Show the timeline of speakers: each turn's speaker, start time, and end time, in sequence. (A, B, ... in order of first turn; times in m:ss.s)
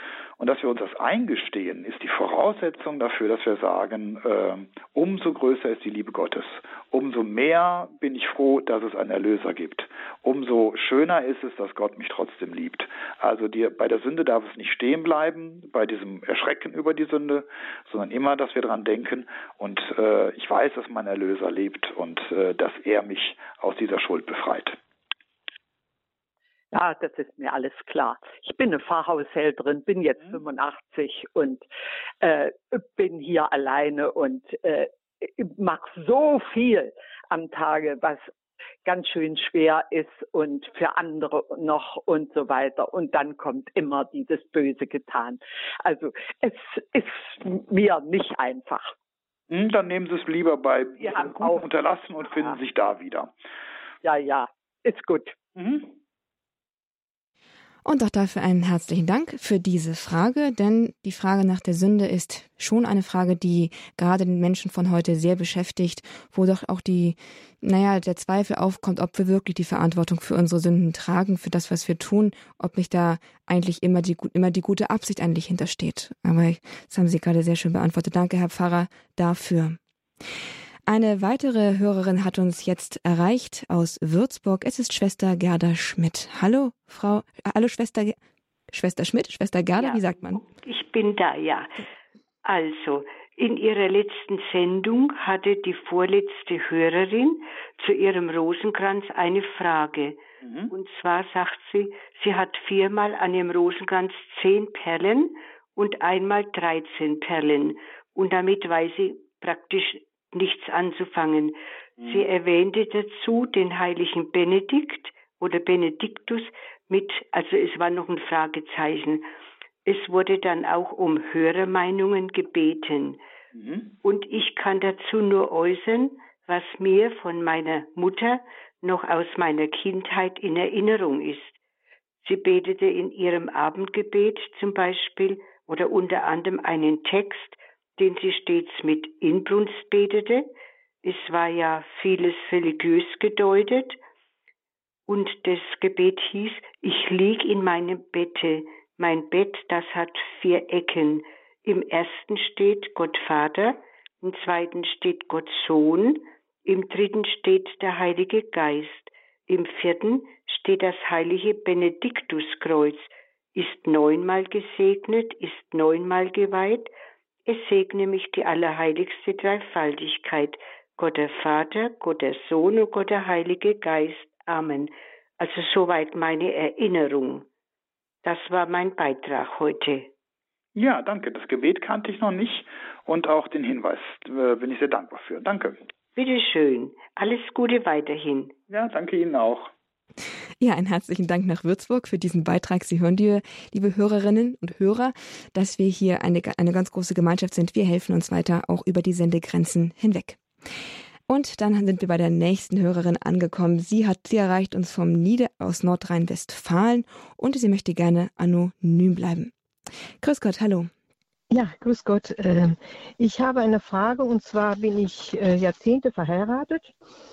0:00.4-0:24.8 A
0:26.7-0:31.6 B
0:32.2-0:38.3 B
0:38.8-0:48.9 B
0:49.5-0:53.3 A
0:51.0-0:51.7 B
0:52.3-0:52.6 B
0:54.0-0:55.4 B
0:55.6-0:55.9 A
0:57.8-1:19.8 C
1:20.9-1:28.2 C
1:28.7-1:30.4 C
1:29.8-1:31.8 D
1:32.4-1:40.2 D
1:40.4-1:40.7 A
1:40.7-1:59.3 D
1:59.9-2:03.2 D
2:03.6-2:03.9 A
2:04.0-2:11.6 D
2:12.2-2:20.5 D
2:21.0-2:24.0 D
2:25.1-2:46.9 D
2:47.5-2:57.5 D
2:58.2-3:00.1 D
3:00.8-3:05.8 A
3:06.2-3:08.6 D
3:08.7-3:09.7 A
3:10.6-3:20.4 C
3:21.3-3:29.5 C
3:30.2-3:30.9 C
3:31.5-3:36.9 E